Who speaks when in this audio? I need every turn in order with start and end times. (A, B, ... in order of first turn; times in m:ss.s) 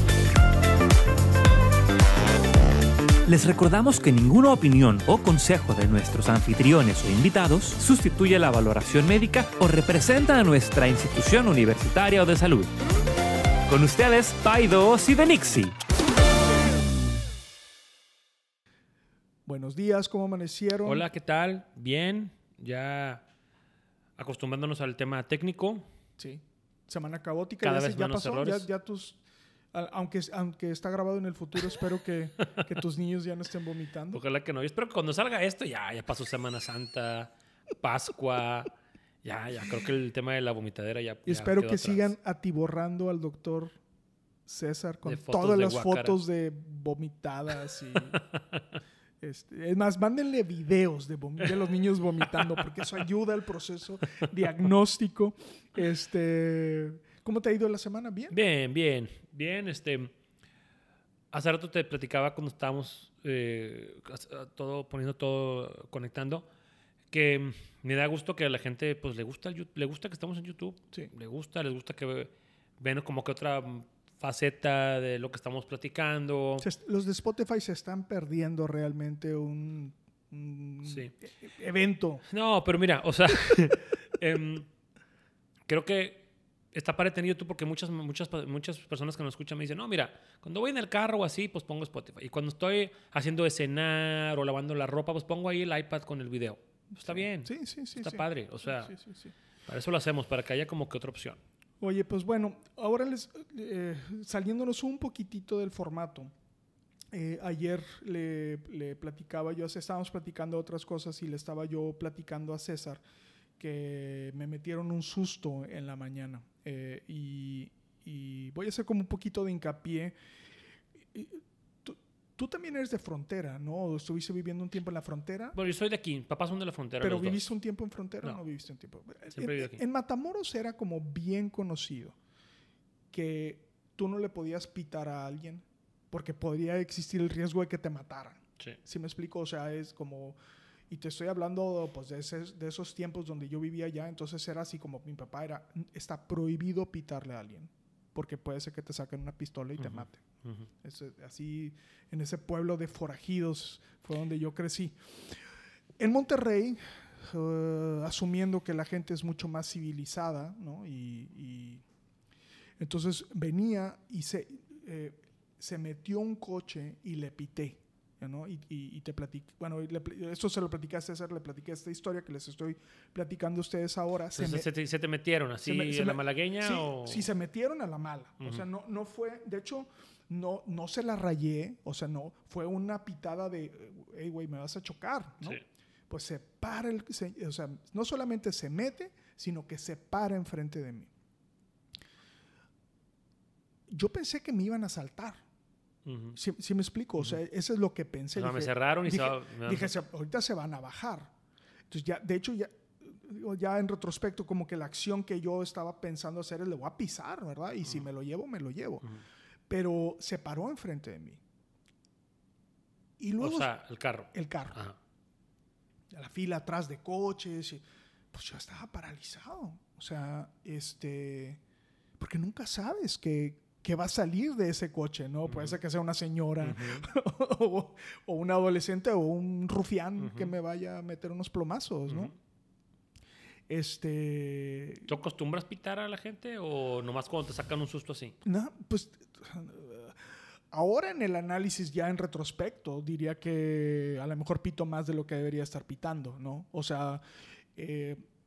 0:03.3-0:12.7 A
0:13.7-0:15.8 A
0:19.5-0:21.0 B
0:20.8-0:23.2 C
0:24.2-0:25.9 C
0:26.2-0:29.2 B
0:27.6-0:28.7 C
0:29.7-0:34.2 B
0:34.1-0:38.7 C
0:39.2-0:42.1 C
0:41.3-0:43.8 B
0:44.5-0:48.2 B
0:45.0-0:46.2 C
0:48.1-0:48.6 C
0:49.2-0:58.4 B
0:52.2-0:53.0 C
0:58.3-1:00.1 C
1:01.3-1:06.5 C
1:07.1-1:16.7 C
1:16.6-1:22.2 B
1:20.8-1:21.1 C
1:22.3-1:24.7 C
1:25.7-1:38.9 C
1:37.0-1:39.3 B
1:39.7-1:41.4 C
1:41.8-1:46.3 B
1:47.1-1:53.0 B
1:53.6-2:00.2 B
2:01.0-2:05.6 B
2:05.6-2:07.5 C
2:07.0-2:12.2 B
2:09.3-2:09.8 C
2:13.1-2:20.4 B
2:20.9-2:30.2 B
2:29.8-2:30.7 C
2:30.8-2:35.4 B
2:36.0-2:41.8 B
2:42.8-2:54.7 B
2:54.3-2:57.3 C
2:55.6-3:11.1 B
2:58.4-2:58.7 C
3:13.9-3:15.4 B
3:16.0-3:16.4 C
3:16.4-3:21.3 B
3:18.4-3:20.0 C
3:21.9-3:29.1 B
3:29.7-3:31.4 B
3:33.2-3:33.7 B
3:33.4-3:35.0 C
3:34.3-3:34.8 B
3:36.1-3:41.6 B
3:42.2-3:52.3 B
3:45.5-3:45.8 C
3:46.6-3:47.1 C
3:50.2-3:50.5 C
3:52.1-3:52.3 C
3:53.7-3:55.1 B
3:55.1-3:58.4 C
3:58.4-4:08.3 B